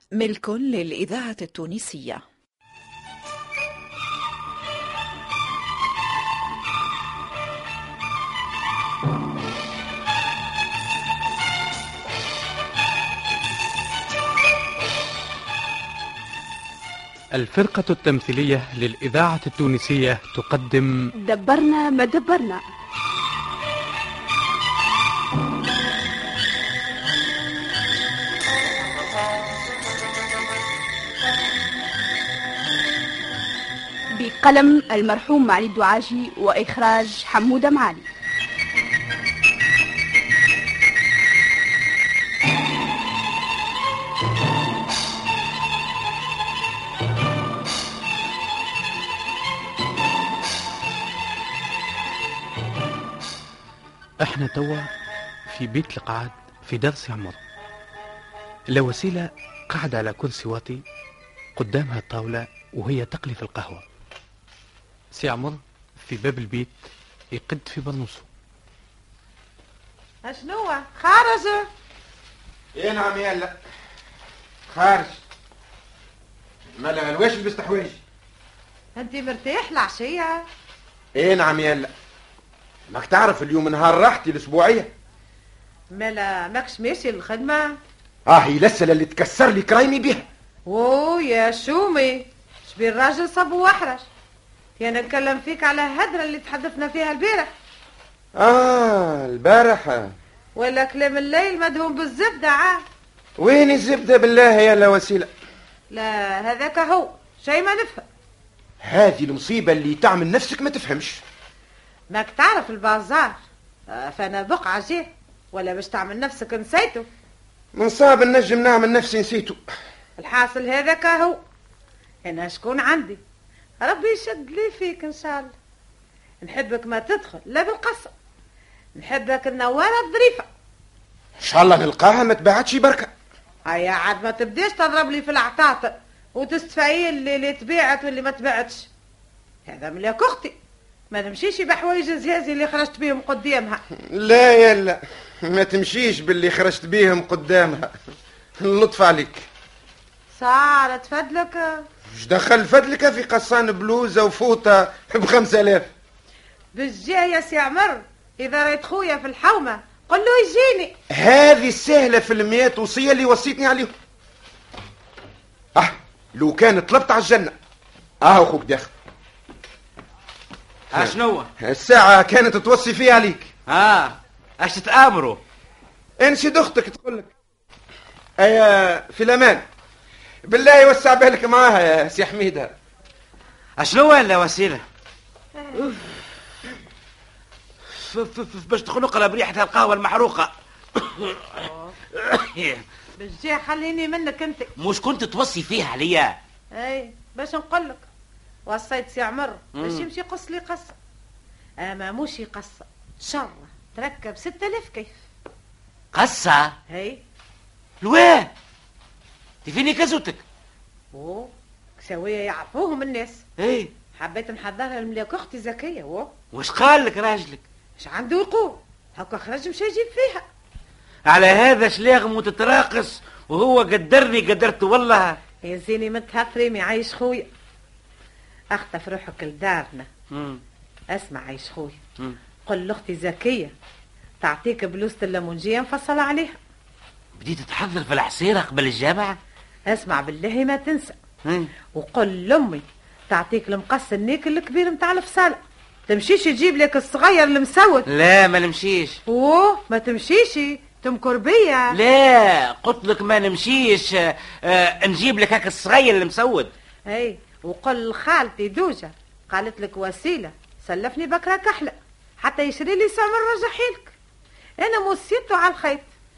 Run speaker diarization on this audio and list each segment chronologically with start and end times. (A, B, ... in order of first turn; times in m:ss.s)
0:00.2-0:02.2 A
0:17.4-0:20.9 B
0:21.2-0:22.6 C
0:34.2-0:38.1 C
0:54.2-0:54.8 B
0:55.5-0:57.4 B
0:58.7-1:00.8 B
1:01.6-1:03.8 B
1:05.1-1:06.8 B
1:07.3-1:08.3 B
1:10.2-1:11.7 D
1:12.7-1:13.6 E
1:14.7-1:15.2 E
1:16.8-1:18.0 E
1:19.0-1:20.4 D
1:21.2-1:21.9 E
1:22.9-1:24.9 E
1:25.9-1:27.8 D
1:28.3-1:30.2 E
1:30.7-1:34.0 D
1:34.8-1:37.5 D
1:38.4-1:40.1 E
1:40.6-1:42.8 D
1:43.4-1:45.3 E
1:45.9-1:48.0 D
1:48.8-1:51.2 E
1:52.1-1:53.4 D
1:53.9-1:57.1 D
1:57.7-1:59.6 E
2:00.2-2:01.4 D
2:02.2-2:03.2 D
2:03.8-2:05.5 D
2:06.4-2:08.1 D
2:09.0-2:10.5 D
2:11.4-2:13.1 E
2:13.7-2:18.9 D
2:19.7-2:20.6 D
2:21.1-2:23.8 D
2:24.0-2:27.9 E
2:28.6-2:29.5 E
2:30.3-2:31.8 D
2:32.1-2:35.9 E
2:36.7-2:40.9 D
2:41.1-2:43.9 E
2:45.8-2:47.5 E
2:48.2-2:48.9 E
2:50.9-2:51.5 F
2:50.9-2:53.5 E
2:53.7-2:55.4 F
2:56.2-2:57.3 E
2:58.4-2:59.6 E
3:00.5-3:02.7 E
3:03.8-3:04.8 F
3:05.6-3:06.0 D
3:08.0-3:12.8 F
3:13.2-3:14.7 D
3:14.8-3:16.4 F
3:16.7-3:18.0 D
3:18.7-3:21.0 D
3:19.8-3:20.1 F
3:21.8-3:25.2 D
3:26.1-3:26.7 F
3:26.9-3:27.2 D
3:28.0-3:28.5 F
3:29.6-3:30.4 F
3:31.1-3:33.4 D
3:33.6-3:33.9 F
3:34.2-3:36.3 D
3:36.5-3:37.6 F
3:38.0-3:40.4 D
3:41.3-3:45.4 F
3:45.6-3:47.5 D
3:48.8-3:50.1 D
3:50.3-3:50.6 F
3:51.1-3:52.0 D
3:52.7-3:53.7 D
3:54.4-3:56.6 D
3:57.4-3:59.4 F
3:59.9-4:01.2 D
4:02.0-4:08.1 D
4:08.1-4:09.2 F
4:09.3-4:11.9 D
4:11.9-4:16.7 F
4:17.1-4:24.1 D
4:24.8-4:26.1 D